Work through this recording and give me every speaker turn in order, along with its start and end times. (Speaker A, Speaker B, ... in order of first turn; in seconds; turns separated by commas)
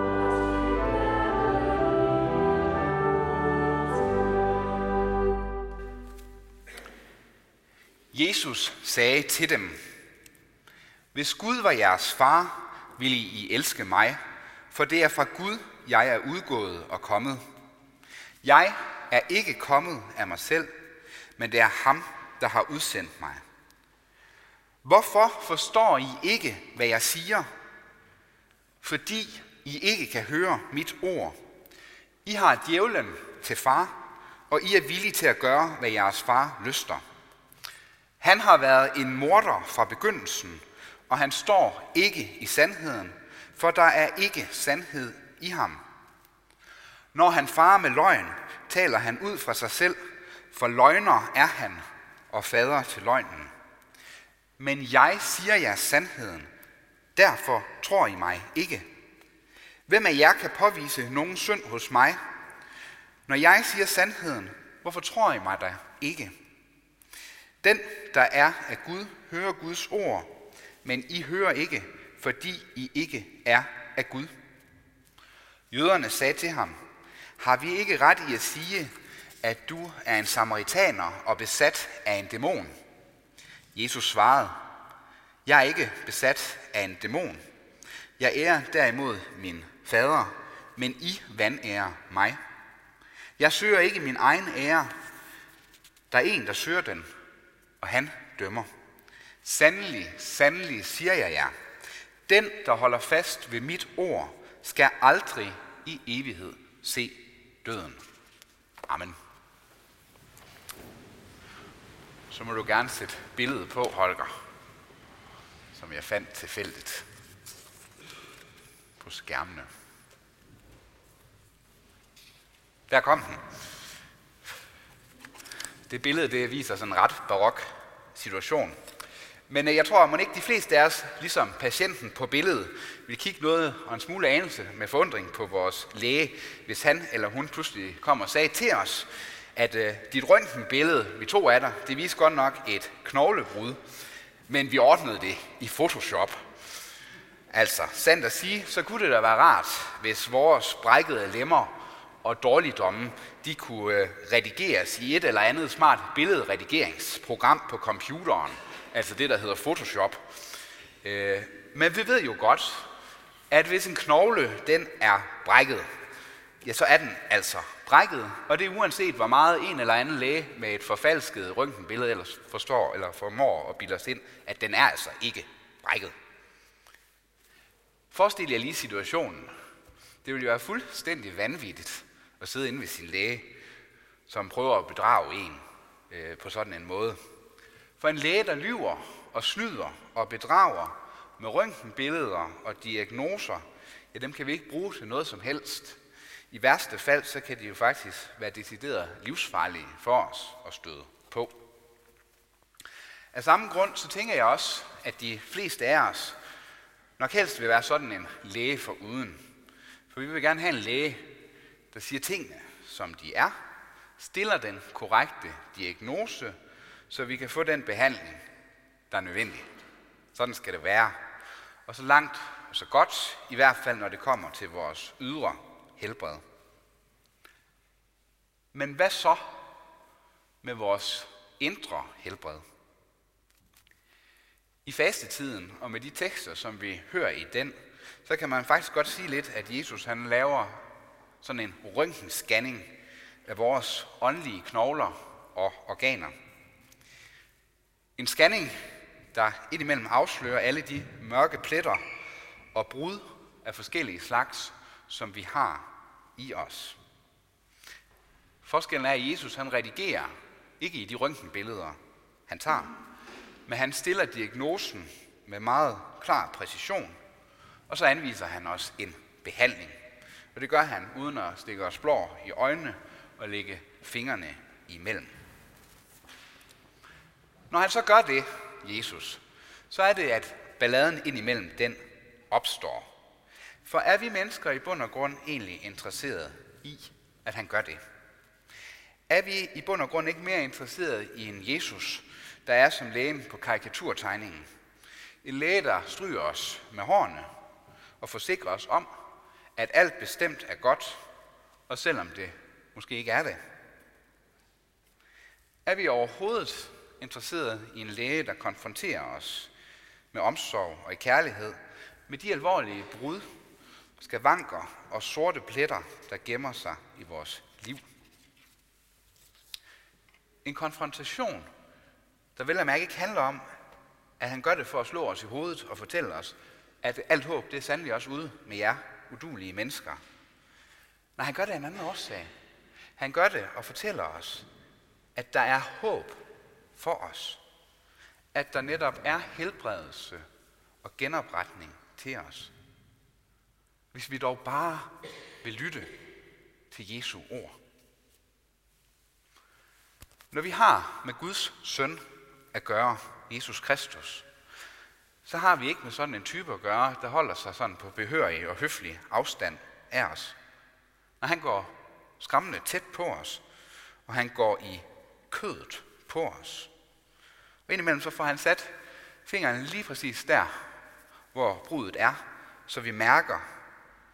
Speaker A: 8.1-9.8, Speaker A: 11.1-14.2, Speaker A: 14.7-17.4, Speaker A: 18.4-20.7, Speaker A: 21.4-23.4, Speaker A: 24.8-27.5, Speaker A: 28.8-31.4, Speaker A: 32.2-33.9, Speaker A: 34.5-37.0, Speaker A: 38.2-45.8, Speaker A: 47.1-50.0, Speaker A: 50.5-53.5, Speaker A: 54.6-56.5, Speaker A: 57.1-58.9, Speaker A: 59.9-62.2, Speaker A: 63.3-66.3, Speaker A: 67.6-70.3, Speaker A: 70.8-74.3, Speaker A: 75.7-76.8, Speaker A: 77.4-82.7, Speaker A: 83.7-84.6, Speaker A: 85.5-87.4, Speaker A: 88.2-92.4, Speaker A: 93.4-94.9, Speaker A: 96.1-97.1, Speaker A: 97.8-98.7, Speaker A: 99.4-101.5, Speaker A: 102.3-108.0, Speaker A: 108.9-109.2, Speaker A: 112.3-114.3, Speaker A: 115.7-117.1, Speaker A: 119.0-119.7, Speaker A: 122.9-123.4, Speaker A: 125.9-128.8, Speaker A: 129.5-143.8, Speaker A: 144.5-146.4, Speaker A: 147.5-160.2, Speaker A: 161.0-162.9, Speaker A: 163.5-165.9, Speaker A: 166.6-176.1, Speaker A: 178.1-179.5, Speaker A: 180.2-183.5, Speaker A: 184.3-187.2, Speaker A: 188.0-196.0, Speaker A: 196.5-201.6, Speaker A: 203.3-206.4, Speaker A: 207.2-209.4, Speaker A: 210.1-211.3, Speaker A: 211.9-213.5, Speaker A: 214.2-216.6, Speaker A: 217.1-218.4, Speaker A: 219.1-219.7, Speaker A: 220.3-221.2, Speaker A: 221.8-226.4, Speaker A: 228.7-229.6, Speaker A: 230.6-232.6, Speaker A: 234.8-240.8, Speaker A: 241.4-242.9, Speaker A: 243.4-246.3, Speaker A: 248.2-248.8, Speaker A: 249.3-252.0, Speaker A: 252.7-257.0, Speaker A: 258.6-263.0, Speaker A: 263.6-267.2, Speaker A: 267.9-270.0, Speaker A: 270.5-275.3, Speaker A: 277.7-283.1, Speaker A: 283.8-288.0, Speaker A: 289.3-294.7, Speaker A: 295.4-297.5, Speaker A: 298.2-299.1, Speaker A: 299.8-301.2, Speaker A: 301.9-303.6, Speaker A: 305.8-309.7, Speaker A: 310.3-313.5, Speaker A: 314.2-318.0, Speaker A: 320.6-321.7, Speaker A: 322.6-323.6, Speaker A: 324.4-330.2, Speaker A: 331.4-332.5, Speaker A: 333.2-334.7, Speaker A: 335.4-336.4, Speaker A: 336.9-337.6, Speaker A: 338.5-340.4, Speaker A: 341.0-342.7, Speaker A: 344.1-346.1, Speaker A: 346.9-347.8, Speaker A: 350.5-354.4, Speaker A: 355.4-360.6, Speaker A: 361.4-363.6, Speaker A: 364.3-366.9, Speaker A: 367.9-368.9, Speaker A: 369.4-370.8, Speaker A: 371.5-373.6